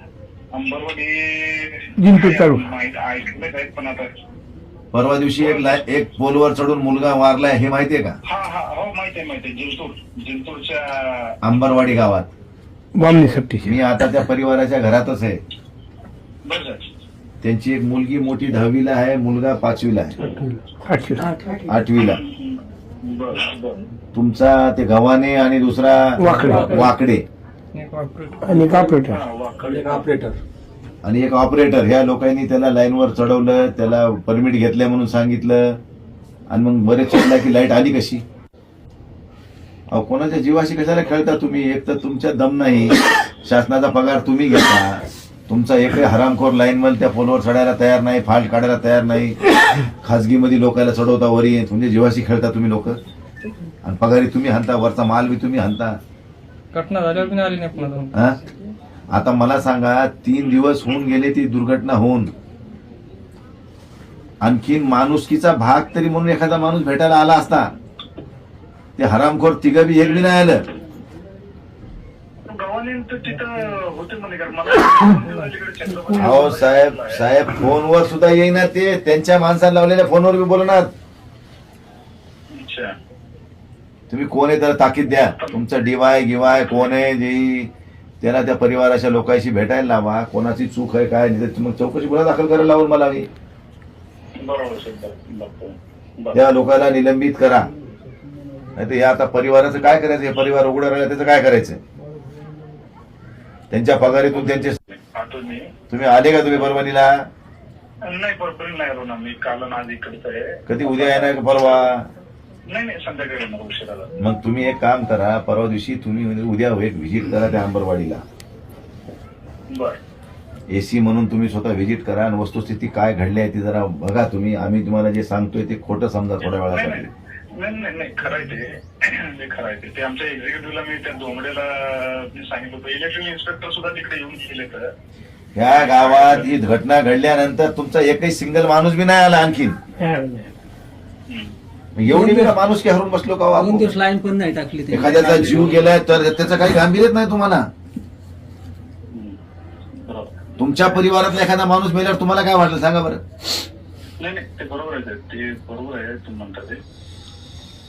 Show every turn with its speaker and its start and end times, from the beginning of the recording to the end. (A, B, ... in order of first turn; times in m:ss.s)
0:00.5-0:04.1 A
0:02.0-0:02.6 B
0:04.9-0:08.2 C
0:05.4-0:05.8 A
0:08.2-0:11.4 A
0:11.4-0:12.3 C
0:13.0-0:13.8 B
0:13.6-0:15.4 C
0:16.5-0:16.9 A
0:17.4-0:20.2 C
0:20.2-0:21.3 B
0:21.2-0:21.8 D
0:21.7-0:22.2 C
0:22.0-0:23.8 A
0:24.1-0:27.2 C
0:26.2-0:26.8 B
0:26.3-0:26.9 D
0:27.7-0:28.8 E
0:28.4-0:29.2 B
0:28.7-0:30.1 A
0:29.6-0:30.4 D
0:31.0-0:35.8 C
0:36.5-0:38.2 C
0:39.9-0:53.0 C
0:53.8-0:56.0 C
0:56.7-0:58.1 E
0:59.1-1:02.3 C
1:04.4-1:07.7 C
1:09.0-1:10.6 C
1:10.0-1:10.3 A
1:12.5-1:17.2 A
1:16.2-1:20.9 C
1:22.5-1:22.9 A
1:24.1-1:27.7 C
1:25.2-1:25.6 A
1:26.4-1:27.0 A
1:28.2-1:33.3 C
1:34.4-1:36.4 A
1:36.3-1:37.7 C
1:38.8-1:41.8 C
1:43.7-1:44.8 C
1:44.4-1:45.7 A
1:45.9-1:47.1 C
1:48.0-1:51.9 A
1:50.7-1:52.1 C
1:52.7-1:54.1 A
1:54.2-1:58.2 C
1:59.7-2:00.0 A
2:00.7-2:07.1 C
2:06.7-2:14.9 A
2:15.6-2:19.8 C
2:15.6-2:16.5 A
2:20.0-2:20.4 B
2:21.3-2:21.5 A
2:22.0-2:23.9 C
2:22.1-2:22.6 D
2:23.5-2:26.0 D
2:24.9-2:27.7 C
2:29.1-2:29.4 A
2:30.0-2:30.9 A
2:30.6-2:33.2 C
2:34.2-2:36.8 A